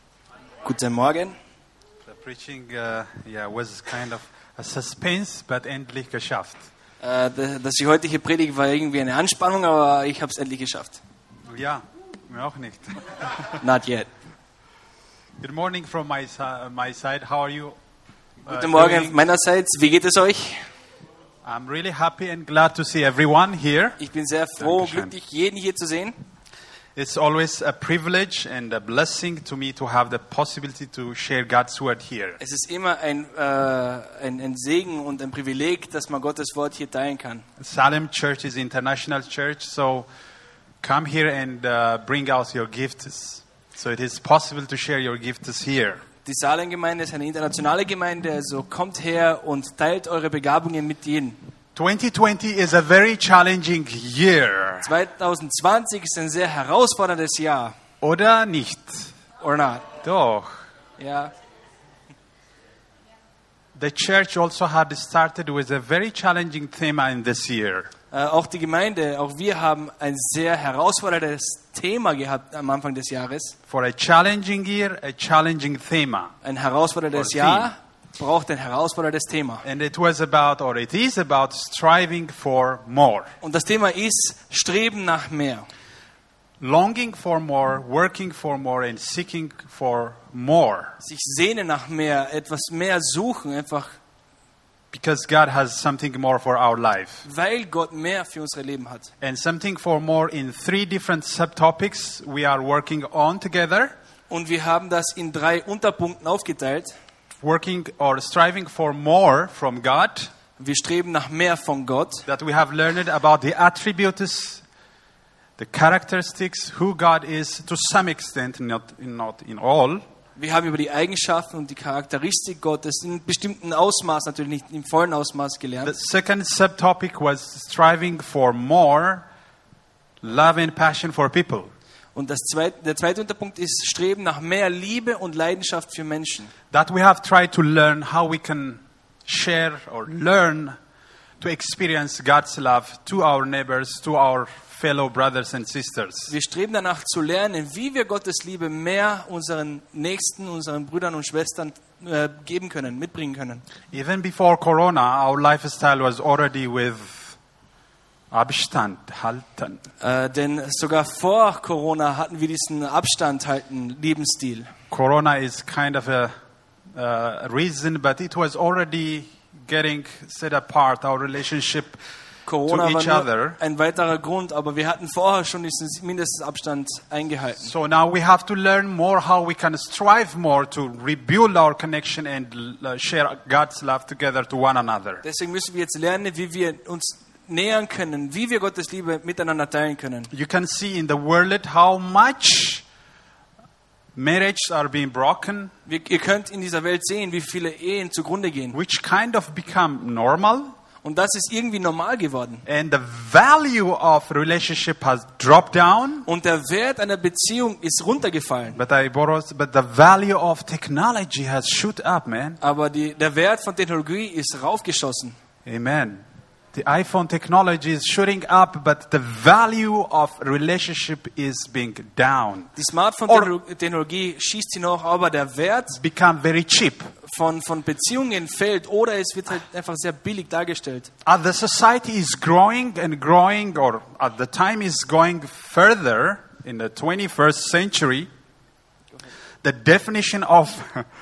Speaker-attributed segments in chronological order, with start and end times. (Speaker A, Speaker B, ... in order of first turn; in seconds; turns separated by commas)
Speaker A: 0.6-1.3, Speaker B: 2.0-6.7, Speaker A: 7.0-11.0, Speaker B: 11.5-13.6, Speaker A: 13.6-14.1, Speaker B: 15.4-17.8, Speaker B: 18.5-19.2, Speaker A: 18.5-20.6, Speaker B: 21.4-24.0, Speaker A: 24.0-26.2, Speaker B: 24.6-25.1, Speaker B: 27.0-32.4, Speaker A: 32.4-37.4, Speaker B: 37.6-40.1, Speaker B: 40.8-46.0, Speaker A: 46.2-51.4, Speaker B: 51.8-54.9, Speaker A: 54.8-57.7, Speaker B: 58.0-59.1, Speaker A: 59.4-59.9, Speaker B: 60.0-60.5, Speaker A: 61.0-61.3, Speaker B: 63.8-67.9, Speaker A: 68.1-73.6, Speaker B: 73.7-76.3, Speaker A: 76.4-79.7, Speaker B: 77.1-77.7, Speaker B: 79.6-83.3, Speaker A: 83.4-85.7, Speaker B: 86.6-91.0, Speaker A: 91.0-94.0, Speaker B: 94.9-97.2, Speaker A: 97.2-99.1, Speaker B: 99.2-103.9, Speaker A: 104.3-106.9, Speaker B: 107.4-110.3, Speaker A: 110.6-112.3, Speaker B: 112.3-114.6, Speaker B: 115.6-120.0, Speaker A: 120.4-125.9, Speaker B: 125.8-129.3, Speaker B: 130.2-131.7, Speaker A: 132.2-136.5, Speaker B: 136.7-140.8, Speaker B: 141.4-146.3, Speaker A: 146.3-153.6, Speaker B: 153.9-157.4, Speaker B: 158.3-159.8, Speaker A: 160.0-164.7, Speaker B: 164.9-166.3, Speaker B: 166.9-172.0, Speaker A: 172.5-177.7, Speaker B: 172.7-173.6, Speaker B: 177.6-185.2, Speaker A: 185.2-190.3, Speaker B: 190.3-192.8, Speaker B: 194.2-195.7, Speaker A: 195.9-198.8, Speaker B: 198.7-200.7, Speaker A: 201.0-202.6, Speaker B: 202.7-206.2, Speaker A: 206.2-208.8, Speaker B: 208.8-212.6, Speaker A: 212.6-215.3, Speaker B: 215.7-216.2, Speaker B: 216.7-222.7, Speaker A: 222.8-226.0, Speaker B: 226.0-227.1, Speaker A: 227.2-231.1, Speaker B: 231.2-238.3, Speaker B: 239.6-241.1